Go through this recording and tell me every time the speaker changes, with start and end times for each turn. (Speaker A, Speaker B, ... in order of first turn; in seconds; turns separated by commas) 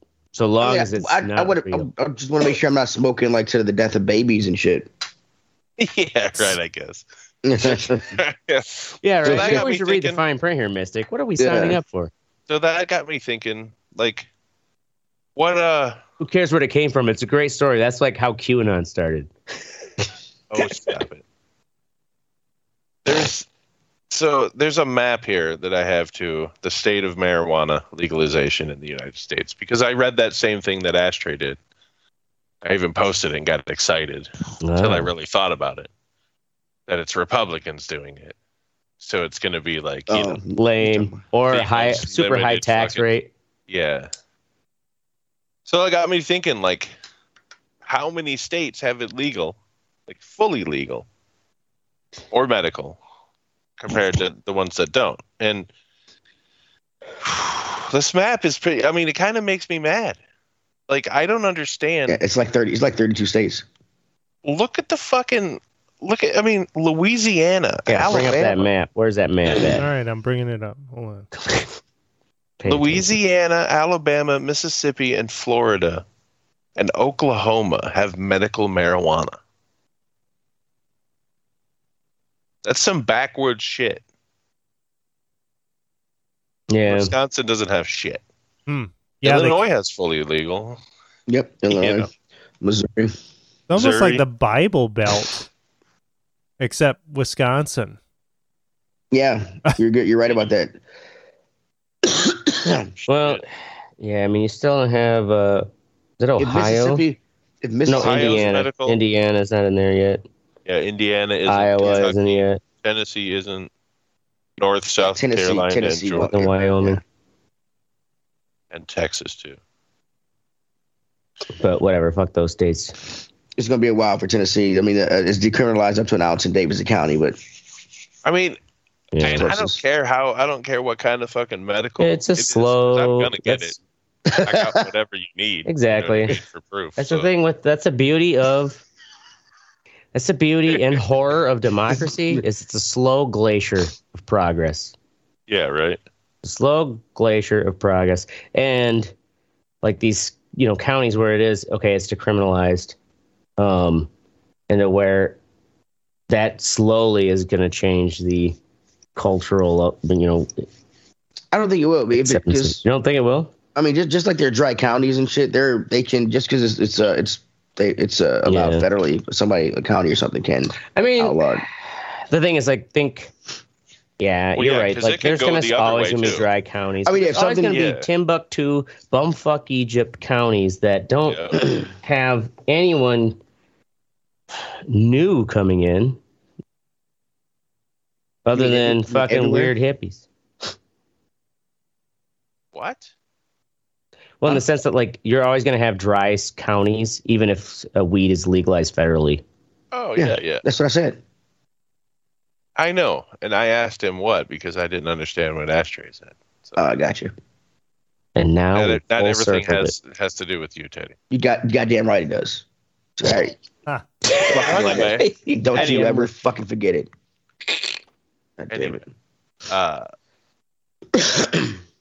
Speaker A: 0.3-1.9, Speaker B: 0.6-4.9, Speaker C: 5.8-7.0, Speaker B: 7.4-8.2, Speaker C: 7.6-10.2, Speaker A: 9.0-12.1, Speaker B: 9.2-9.6, Speaker B: 11.4-11.8, Speaker C: 12.5-14.3, Speaker C: 15.3-16.0, Speaker A: 16.2-19.3, Speaker C: 20.5-21.2, Speaker C: 23.0-23.5, Speaker C: 24.1-31.6, Speaker C: 32.6-35.9, Speaker A: 34.6-35.1, Speaker C: 36.9-38.3, Speaker C: 39.0-40.4, Speaker B: 40.1-41.2, Speaker A: 40.5-43.3, Speaker C: 41.5-43.0, Speaker C: 43.7-44.1, Speaker C: 45.6-46.9, Speaker C: 47.8-51.0, Speaker C: 52.3-53.0, Speaker C: 53.8-55.7, Speaker C: 57.2-60.2, Speaker C: 60.9-62.2, Speaker B: 62.1-63.6, Speaker C: 64.4-68.6, Speaker B: 67.9-68.6, Speaker A: 68.0-69.9, Speaker C: 69.5-69.7, Speaker D: 69.8-71.3, Speaker A: 71.3-71.7, Speaker A: 72.6-73.1, Speaker C: 72.7-76.0, Speaker C: 76.8-79.3, Speaker C: 82.6-84.0, Speaker A: 86.7-87.1, Speaker C: 86.8-88.2, Speaker D: 88.7-89.6, Speaker C: 89.2-90.8, Speaker B: 91.3-92.1, Speaker C: 91.7-92.1, Speaker B: 92.6-93.1, Speaker D: 93.7-95.5, Speaker C: 93.7-94.2, Speaker D: 96.6-98.0, Speaker B: 99.1-100.8, Speaker B: 102.0-102.8, Speaker C: 103.0-103.4, Speaker A: 103.1-103.5, Speaker A: 104.0-105.7, Speaker A: 106.2-107.0, Speaker B: 106.4-108.5, Speaker A: 107.8-110.2, Speaker C: 107.9-109.0, Speaker C: 110.7-113.7, Speaker A: 111.5-112.6, Speaker C: 114.6-116.3, Speaker B: 115.0-117.0, Speaker A: 116.2-117.0, Speaker C: 118.7-119.6, Speaker A: 121.6-123.0, Speaker B: 123.6-127.4, Speaker C: 128.2-128.6, Speaker A: 129.1-129.5, Speaker C: 129.2-133.8, Speaker B: 129.3-129.8, Speaker A: 132.0-133.7, Speaker B: 134.3-134.8, Speaker C: 134.3-137.3, Speaker A: 135.7-136.3, Speaker A: 137.0-138.8, Speaker A: 140.1-144.9, Speaker C: 140.7-141.0, Speaker C: 145.5-146.0, Speaker A: 146.4-149.1, Speaker A: 149.8-152.9, Speaker A: 153.6-154.1, Speaker A: 154.7-155.4, Speaker A: 156.3-158.6, Speaker A: 159.1-160.6, Speaker B: 161.5-162.8, Speaker A: 162.1-163.5, Speaker B: 163.7-171.6, Speaker A: 168.4-168.8, Speaker A: 170.9-171.4, Speaker A: 171.9-173.3, Speaker A: 174.2-183.4, Speaker C: 174.6-176.5, Speaker B: 177.0-177.8, Speaker C: 177.7-178.1, Speaker C: 181.2-181.6, Speaker A: 184.9-186.2, Speaker A: 188.4-190.2, Speaker B: 188.5-189.7, Speaker C: 192.7-193.1, Speaker A: 194.4-199.4, Speaker C: 199.9-200.6, Speaker B: 200.2-201.2, Speaker C: 202.8-206.8, Speaker B: 206.8-207.3, Speaker A: 208.3-209.9, Speaker C: 208.7-211.1, Speaker B: 211.3-212.6, Speaker B: 213.2-213.6, Speaker A: 214.2-216.3, Speaker C: 214.5-216.1, Speaker B: 214.5-217.1, Speaker B: 218.6-219.1, Speaker C: 218.7-219.0, Speaker C: 219.7-220.0, Speaker B: 221.1-221.7